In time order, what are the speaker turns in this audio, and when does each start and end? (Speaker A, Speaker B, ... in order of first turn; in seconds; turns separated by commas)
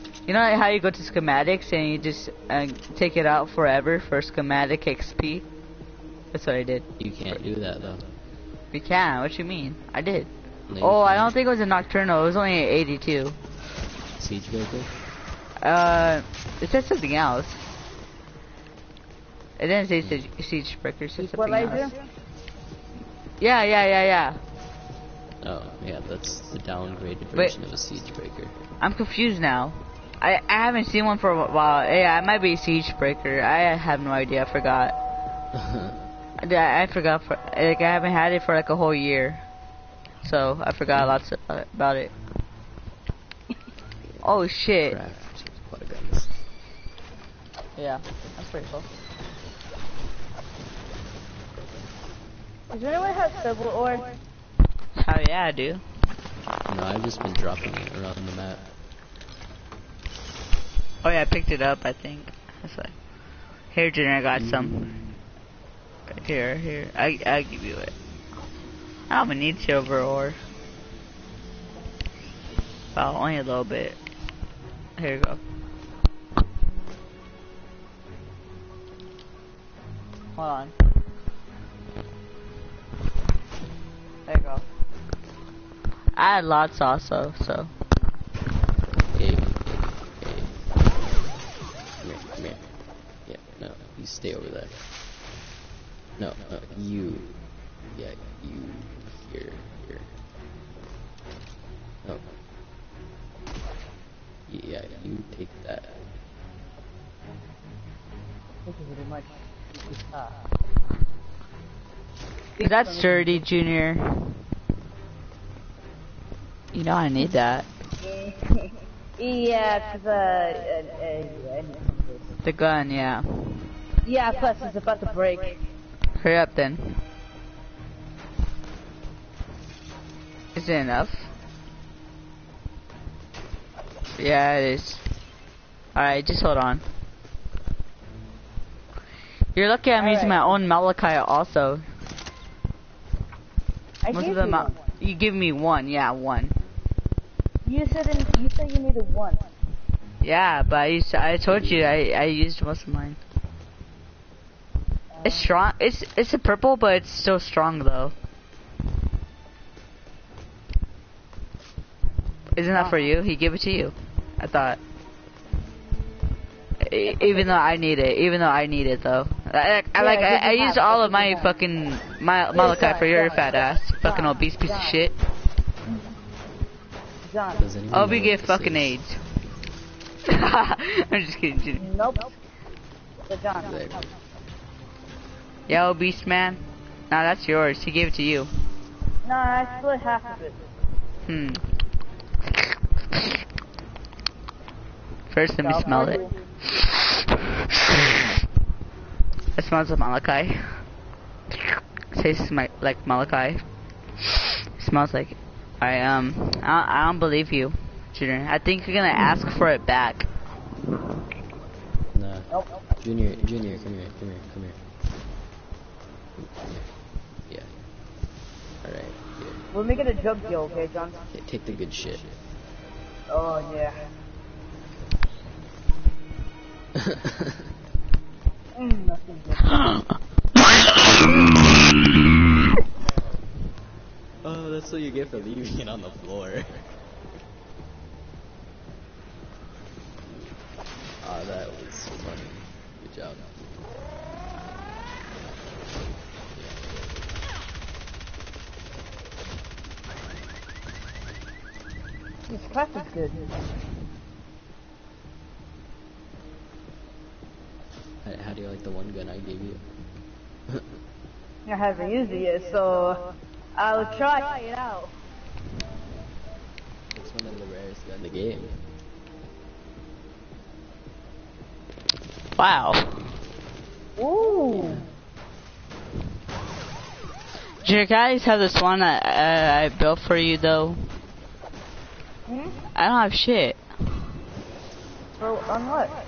Speaker A: 0.3-5.5, Speaker A: 6.3-7.3, Speaker B: 7.0-8.1, Speaker A: 8.7-13.4, Speaker B: 10.7-11.3, Speaker B: 14.2-14.9, Speaker A: 15.6-17.6, Speaker A: 19.6-21.9, Speaker B: 20.0-20.3, Speaker C: 21.2-21.9, Speaker A: 23.4-24.4, Speaker B: 25.4-28.6, Speaker A: 28.8-35.0, Speaker B: 35.5-36.0, Speaker A: 36.4-39.4, Speaker A: 40.2-42.1, Speaker B: 44.1-46.4, Speaker A: 44.2-45.0, Speaker A: 47.8-48.9, Speaker C: 52.7-54.2, Speaker A: 55.0-55.8, Speaker B: 56.6-58.7, Speaker A: 61.0-63.0, Speaker A: 63.7-65.0, Speaker B: 64.3-65.2, Speaker A: 66.1-67.9, Speaker A: 69.1-70.4, Speaker A: 72.9-74.0, Speaker A: 75.0-75.4, Speaker A: 80.3-80.7, Speaker A: 84.3-84.6, Speaker A: 86.1-87.7, Speaker B: 89.1-90.7, Speaker B: 92.0-94.8, Speaker B: 96.2-100.2, Speaker B: 102.0-102.3, Speaker B: 104.5-106.0, Speaker C: 108.6-110.3, Speaker C: 112.6-113.3, Speaker A: 112.6-114.4, Speaker A: 116.7-117.7, Speaker C: 118.0-122.3, Speaker A: 122.4-123.7, Speaker C: 124.0-125.6, Speaker A: 126.2-127.0, Speaker A: 130.5-131.3, Speaker A: 134.2-135.0, Speaker A: 135.9-136.8, Speaker A: 139.5-141.8, Speaker C: 140.0-140.4, Speaker C: 144.0-144.8, Speaker A: 144.1-146.6, Speaker C: 147.6-149.4, Speaker A: 150.2-153.2, Speaker B: 151.5-151.9, Speaker C: 155.1-155.5, Speaker A: 155.2-158.1, Speaker A: 162.5-164.8, Speaker A: 166.8-175.1, Speaker C: 170.0-171.5, Speaker C: 172.5-175.0, Speaker C: 177.2-177.6, Speaker B: 177.6-178.9, Speaker A: 177.9-179.2, Speaker A: 180.3-181.9, Speaker C: 181.8-182.3, Speaker C: 183.3-183.8, Speaker B: 183.6-184.1, Speaker A: 185.7-188.5, Speaker C: 189.2-190.6, Speaker A: 191.2-191.7, Speaker A: 195.3-197.2, Speaker C: 195.6-196.3, Speaker A: 199.5-200.8, Speaker A: 202.1-210.3, Speaker B: 212.1-214.8, Speaker B: 216.6-217.8, Speaker B: 218.8-219.6, Speaker C: 219.7-221.2, Speaker B: 221.3-222.4, Speaker C: 223.3-224.0, Speaker B: 227.1-227.3, Speaker C: 228.7-229.8, Speaker B: 234.4-236.9, Speaker B: 241.2-243.7, Speaker B: 246.5-247.5, Speaker C: 252.5-253.5, Speaker B: 258.2-259.9, Speaker C: 261.6-265.1, Speaker B: 267.1-268.9, Speaker A: 272.6-273.3, Speaker C: 274.2-275.0, Speaker B: 274.7-275.0, Speaker A: 277.8-281.1, Speaker C: 282.5-282.8, Speaker A: 282.9-283.8, Speaker C: 285.4-286.2